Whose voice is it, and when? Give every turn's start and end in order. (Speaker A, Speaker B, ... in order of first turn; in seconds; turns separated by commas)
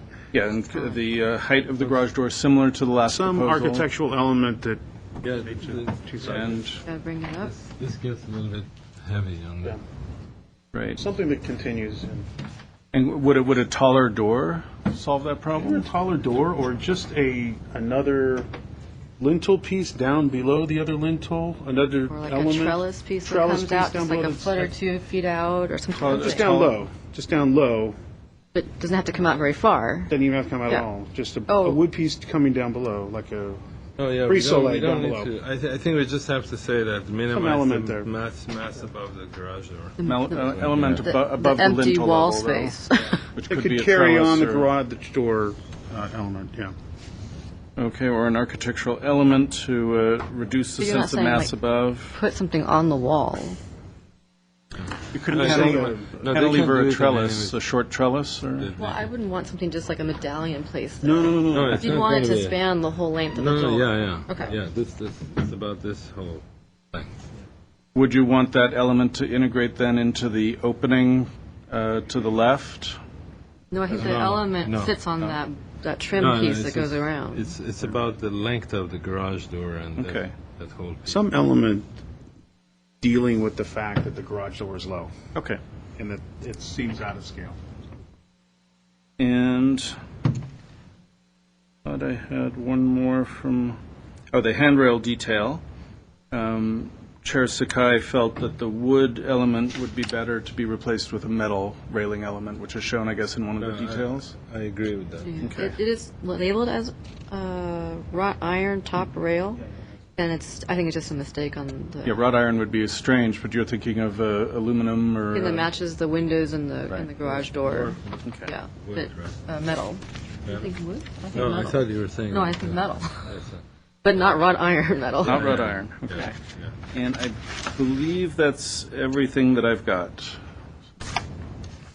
Speaker A: 0.3-3.9, Speaker B: 3.1-6.8, Speaker C: 5.2-6.4, Speaker A: 6.2-6.8, Speaker D: 6.8-7.5, Speaker C: 7.4-9.8, Speaker A: 10.7-11.0, Speaker B: 11.0-12.3, Speaker A: 12.9-15.8, Speaker B: 15.6-18.5, Speaker B: 19.2-24.7, Speaker D: 22.1-26.5, Speaker A: 25.9-26.8, Speaker B: 26.1-27.9, Speaker D: 28.5-30.1, Speaker B: 30.1-33.6, Speaker D: 31.5-31.8, Speaker C: 34.0-41.1, Speaker B: 34.2-35.3, Speaker B: 37.3-38.1, Speaker D: 40.0-43.2, Speaker A: 40.0-42.8, Speaker A: 43.3-44.7, Speaker B: 43.5-46.7, Speaker A: 47.8-52.2, Speaker D: 50.8-51.6, Speaker D: 52.1-53.6, Speaker C: 54.8-57.6, Speaker A: 55.1-58.7, Speaker B: 55.3-56.2, Speaker C: 58.6-59.1, Speaker D: 58.8-64.5, Speaker B: 61.0-62.0, Speaker C: 61.5-62.6, Speaker C: 63.3-67.1, Speaker A: 67.9-73.0, Speaker D: 73.7-77.5, Speaker C: 73.9-75.4, Speaker C: 76.2-81.2, Speaker A: 80.0-80.3, Speaker B: 81.0-81.8, Speaker B: 83.0-85.1, Speaker B: 86.0-87.6, Speaker A: 89.2-89.9, Speaker A: 91.8-93.8, Speaker A: 94.3-95.6, Speaker A: 96.3-104.3, Speaker C: 103.6-105.4, Speaker D: 105.2-109.6, Speaker A: 105.4-105.7, Speaker D: 110.2-112.2, Speaker A: 112.0-115.7, Speaker D: 115.3-123.3, Speaker A: 117.6-118.5, Speaker C: 118.8-119.3, Speaker C: 120.4-120.7, Speaker C: 121.3-123.6, Speaker D: 124.0-125.5, Speaker C: 125.2-126.7, Speaker A: 125.2-126.4, Speaker A: 126.9-130.4